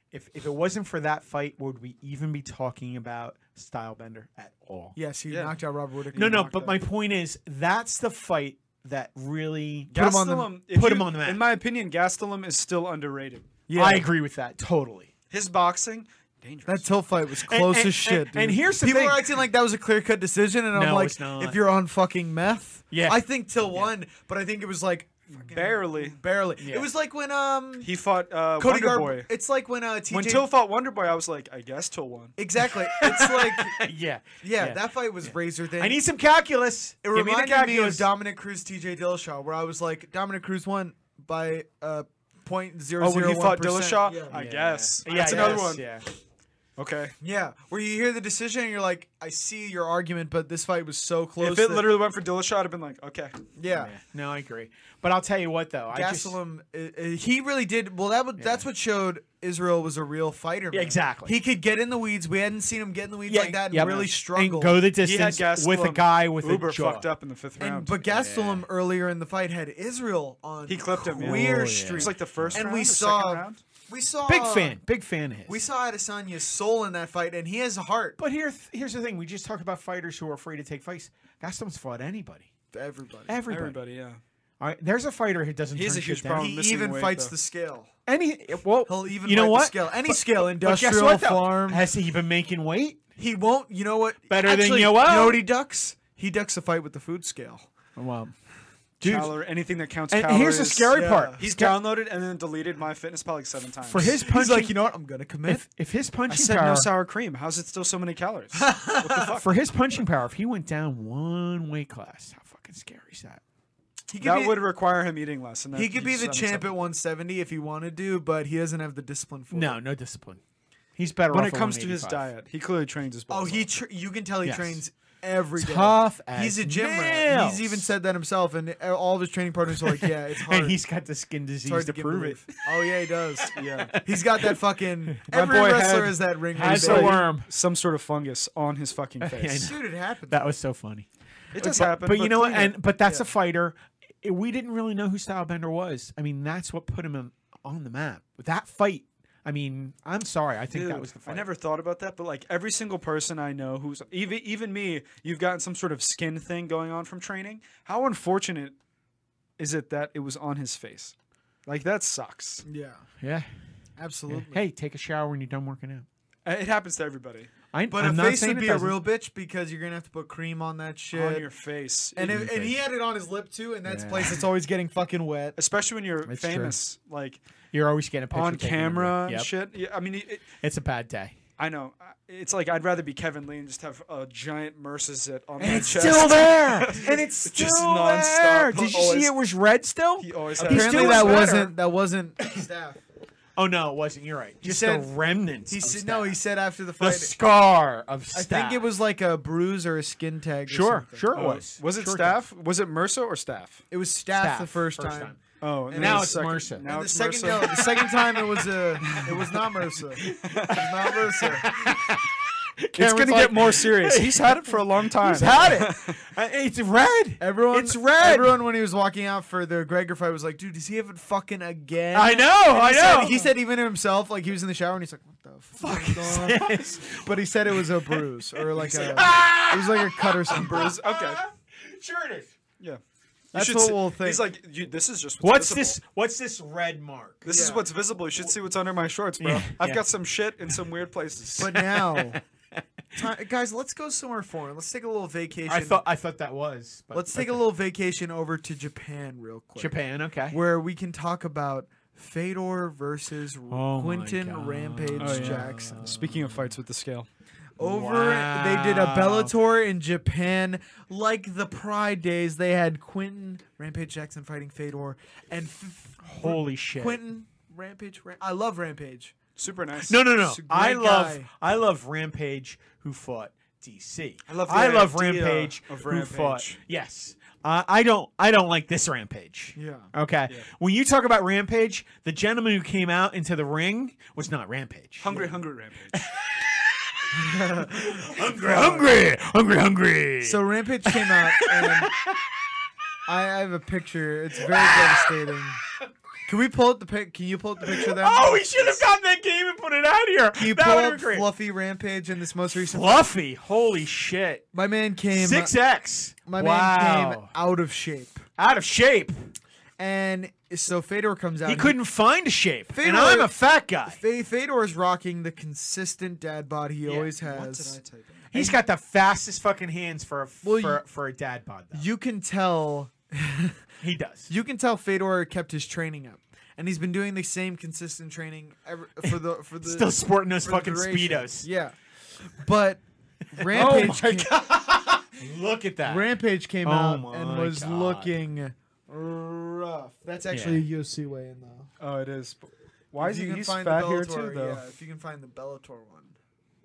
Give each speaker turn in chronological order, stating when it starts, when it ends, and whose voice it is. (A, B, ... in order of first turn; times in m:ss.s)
0:00.1-0:05.0 A
0:05.0-0:06.5 B
0:05.3-0:05.6 C
0:06.1-0:06.8 C
0:06.1-0:10.0 A
0:09.9-0:13.6 C
0:09.9-0:10.5 B
0:10.7-0:11.4 A
0:13.7-0:14.1 B
0:13.7-0:15.1 A
0:15.3-0:16.9 C
0:16.6-0:27.9 B
0:17.4-0:19.2 A
0:20.7-0:21.6 A
0:22.9-0:23.2 A
0:25.3-0:26.2 C
0:26.6-0:26.9 A
0:27.8-0:29.3 C
0:28.6-0:30.5 B
0:30.1-0:32.3 C
0:32.4-0:36.0 B
0:32.9-0:38.1 A
0:37.0-0:44.4 B
0:43.0-0:45.8 C
0:44.3-0:46.0 A
0:45.1-0:45.8 B
0:46.8-0:47.1 C
0:47.2-0:52.0 B
0:51.4-0:53.4 C
0:53.6-0:53.9 B
0:53.7-0:56.4 A
0:55.9-1:04.8 B
0:58.4-0:58.6 A
1:00.7-1:01.3 A
1:03.3-1:07.1 A
1:03.8-1:04.1 C
1:05.0-1:08.0 C
1:07.6-1:14.8 B
1:08.0-1:08.6 A
1:10.7-1:13.6 C
1:11.1-1:12.6 A
1:14.2-1:15.6 A
1:15.5-1:18.2 B
1:18.2-1:22.5 A
1:22.7-1:23.4 B
1:23.3-1:23.8 A
1:23.5-1:24.2 C
1:24.6-1:26.5 A
1:25.7-1:27.3 C
1:26.3-1:27.9 B
1:28.1-1:33.0 A
1:28.8-1:31.8 B
1:33.2-1:37.7 B
1:34.3-1:35.4 A
1:38.0-1:38.3 A
1:39.0-1:39.3 A
1:39.0-1:44.1 C
1:40.1-1:41.8 A
1:40.9-1:41.4 B
1:43.8-1:44.7 A
1:44.0-1:45.6 B
1:45.5-1:46.9 A
1:46.3-1:49.5 C
1:48.5-1:49.4 B
1:49.4-1:53.4 A
1:54.1-1:54.6 B
1:54.2-1:56.7 C
1:55.7-1:59.8 B
1:59.5-2:00.4 A
2:01.0-2:02.3 A
2:01.3-2:03.7 C
2:03.3-2:10.8 B
2:04.4-2:04.8 A
2:05.6-2:07.8 A
2:10.4-2:12.5 A
2:11.6-2:17.2 B
2:13.4-2:14.6 A
2:13.5-2:13.9 C
2:15.3-2:19.7 C
2:16.5-2:17.5 A
2:19.2-2:19.8 A
2:19.6-2:20.5 B
2:20.3-2:31.5 A
2:21.5-2:22.8 C
2:30.7-2:38.8 C
2:39.6-2:41.1 C
2:41.6-2:42.6 C
2:42.6-2:43.0 B
2:43.2-2:43.5 A
2:44.0-2:44.6 B
2:44.3-2:46.0 A
2:46.4-2:47.5 C
2:47.7-2:49.0 A
2:47.9-2:51.5 B
2:51.1-2:52.6 C
2:52.2-2:55.6 B
2:52.3-2:52.8 A
2:53.9-2:54.4 A
2:55.6-2:57.4 C
2:56.2-2:56.8 A
2:57.7-2:59.5 A
2:58.3-3:00.5 C
3:00.6-3:01.4 A
3:01.6-3:09.3 C
3:05.6-3:11.7 A
3:05.6-3:07.2 B
3:10.2-3:11.6 C
3:10.6-3:13.0 B
3:13.6-3:16.4 A
3:14.6-3:15.1 B
3:15.7-3:17.3 B
3:17.0-3:18.8 A
3:18.3-3:21.3 B
3:20.7-3:22.4 A
3:21.3-3:23.8 C
3:23.9-3:25.3 B
3:24.3-3:25.4 A
3:25.6-3:28.1 C
3:25.9-3:31.7 B
3:25.9-3:26.9 A
3:29.0-3:29.5 C
3:30.2-3:38.6 A
3:30.2-3:30.9 C
3:33.0-3:36.2 C
3:37.4-3:51.0 B
3:42.1-3:43.5 A
3:45.8-3:48.2 A
3:48.7-3:49.4 C
3:48.8-3:52.5 A
3:50.5-3:51.4 C
3:53.5-3:56.0 C
3:53.5-3:54.5 B
3:55.4-3:57.6 A
3:57.4-4:01.8 C
3:57.5-3:57.9 B
3:59.4-4:00.0 A
4:01.6-4:02.4 B
4:01.7-4:02.4 A
4:03.2-4:06.0 B
4:05.7-4:07.6 A
4:07.1-4:10.0 B
4:09.8-4:10.6 A
4:10.5-4:16.1 B
4:13.7-4:16.7 A
4:15.2-4:17.3 C
4:17.8-4:29.3 B
4:17.8-4:19.6 A
4:26.2-4:27.2 A
4:29.6-4:30.6 C
4:30.0-4:45.4 A
4:30.6-4:31.5 B
4:34.5-4:36.8 C
4:39.8-4:40.1 B
4:45.2-4:46.2 C
4:46.1-4:52.4 A
4:47.3-4:49.2 B
4:50.4-4:52.1 B
4:53.3-4:55.8 B
4:54.7-4:55.3 A
4:56.4-4:59.0 B
4:57.8-5:01.5 A
5:00.5-5:03.3 B
5:02.9-5:04.6 A
5:04.7-5:05.7 B
5:05.3-5:07.5 A
5:06.4-5:08.4 B
5:08.6-5:09.3 A
5:10.0-5:12.0 B
5:11.6-5:14.2 A
5:12.9-5:13.5 B
5:14.0-5:18.0 B
5:17.2-5:18.5 C
5:18.5-5:22.0 A
5:20.6-5:21.0 B
5:21.9-5:23.8 B
5:24.0-5:24.5 A
5:24.5-5:33.0 B
5:29.8-5:31.7 A
5:33.5-5:34.5 B
5:33.6-5:36.3 A
5:36.0-5:41.9 B
5:36.8-5:38.3 A
5:40.5-5:40.8 A
5:42.0-5:44.8 C
5:43.2-5:46.3 B